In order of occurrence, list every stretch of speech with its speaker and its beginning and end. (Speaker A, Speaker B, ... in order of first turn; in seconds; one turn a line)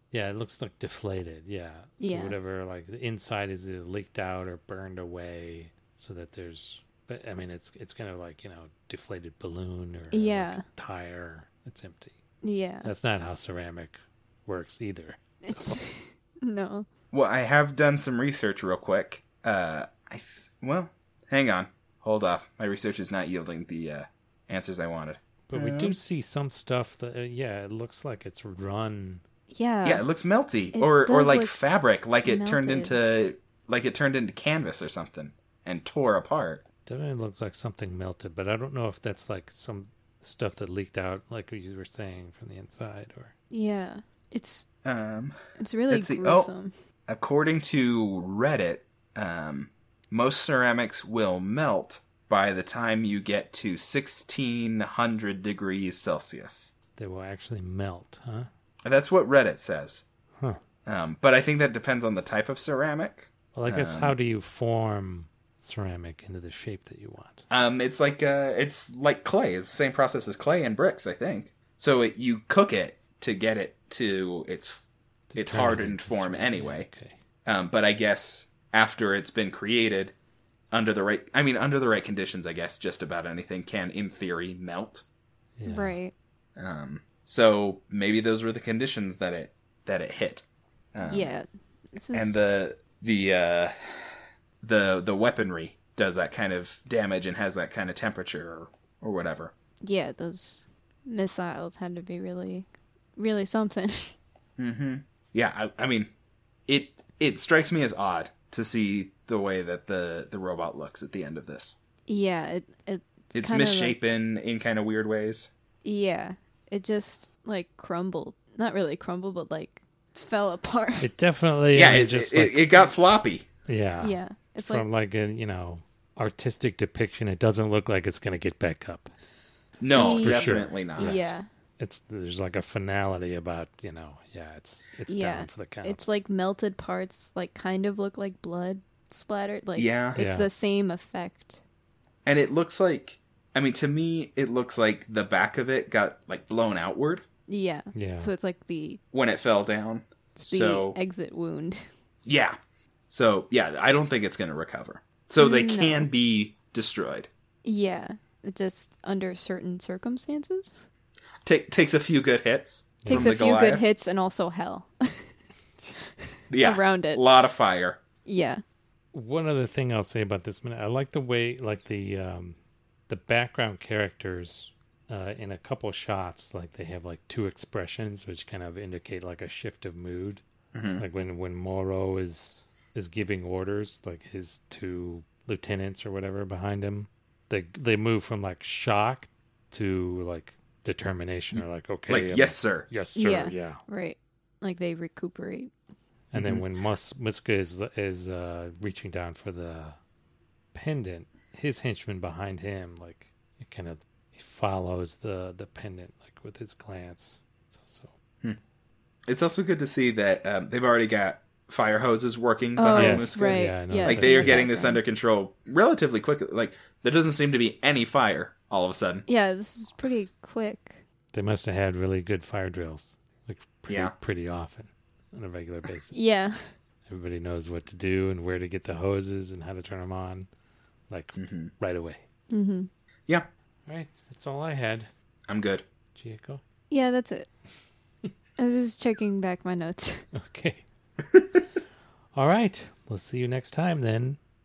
Speaker A: 0.1-12.1
Speaker B: 2.0-2.4
Speaker B: 10.1-10.6
Speaker B: 12.4-12.9
Speaker A: 12.8-15.2
Speaker B: 15.5-16.9
Speaker C: 17.1-26.0
Speaker A: 25.5-29.2
Speaker B: 29.5-30.0
Speaker C: 29.8-36.6
Speaker B: 30.7-31.6
Speaker B: 32.2-33.0
Speaker A: 36.9-43.3
Speaker B: 43.5-44.7
Speaker C: 44.8-45.4
Speaker B: 45.6-46.7
Speaker C: 45.9-46.5
Speaker C: 47.1-56.7
Speaker A: 57.0-58.5
Speaker C: 58.9-60.0
Speaker C: 60.9-64.2
Speaker A: 63.5-67.5
Speaker C: 67.5-74.8
Speaker A: 75.3-77.2
Speaker C: 75.4-76.9
Speaker C: 77.5-80.1
Speaker C: 80.7-85.0
Speaker A: 85.6-86.0
Speaker B: 85.7-86.1
Speaker C: 86.6-91.3
Speaker B: 91.0-92.4
Speaker C: 92.1-94.1
Speaker C: 94.6-99.5
Speaker B: 99.8-104.1
Speaker C: 104.6-106.1
Speaker C: 106.7-111.8
Speaker B: 112.1-114.0
Speaker C: 113.3-115.5
Speaker B: 115.8-121.1
Speaker A: 121.0-122.9
Speaker C: 121.7-123.5
Speaker A: 123.7-129.1
Speaker B: 124.0-124.8
Speaker C: 129.8-131.3
Speaker B: 129.9-131.4
Speaker A: 129.9-136.0
Speaker B: 135.1-141.6
Speaker C: 139.8-140.2
Speaker A: 140.2-140.5
Speaker C: 142.3-147.2
Speaker B: 147.5-149.0
Speaker A: 147.9-148.3
Speaker C: 149.1-151.0
Speaker B: 150.4-151.8
Speaker C: 152.3-152.6
Speaker C: 153.1-157.3
Speaker B: 155.4-156.1
Speaker B: 157.7-160.8
Speaker C: 161.4-163.9
Speaker A: 163.0-163.3
Speaker B: 163.1-165.3
Speaker C: 166.5-168.0
Speaker B: 166.6-167.2
Speaker B: 168.3-168.6
Speaker A: 169.1-172.6
Speaker A: 173.1-180.4
Speaker C: 180.8-181.0
Speaker A: 181.0-193.8
Speaker C: 191.6-192.9
Speaker B: 193.2-195.7
Speaker A: 196.3-200.0
Speaker C: 196.3-196.7
Speaker A: 200.7-208.1
Speaker C: 209.3-219.3
Speaker B: 212.8-215.0
Speaker A: 212.9-214.7
Speaker B: 219.3-221.0
Speaker A: 221.3-226.3
Speaker C: 223.9-224.1
Speaker B: 226.1-226.6
Speaker A: 227.1-230.5
Speaker A: 231.1-232.2
Speaker C: 231.4-231.7
Speaker B: 232.5-232.9
Speaker A: 233.9-235.1
Speaker C: 235.5-235.8
Speaker A: 236.2-236.6
Speaker B: 236.9-237.5
Speaker B: 238.6-240.2
Speaker A: 240.3-240.8
Speaker A: 242.3-244.4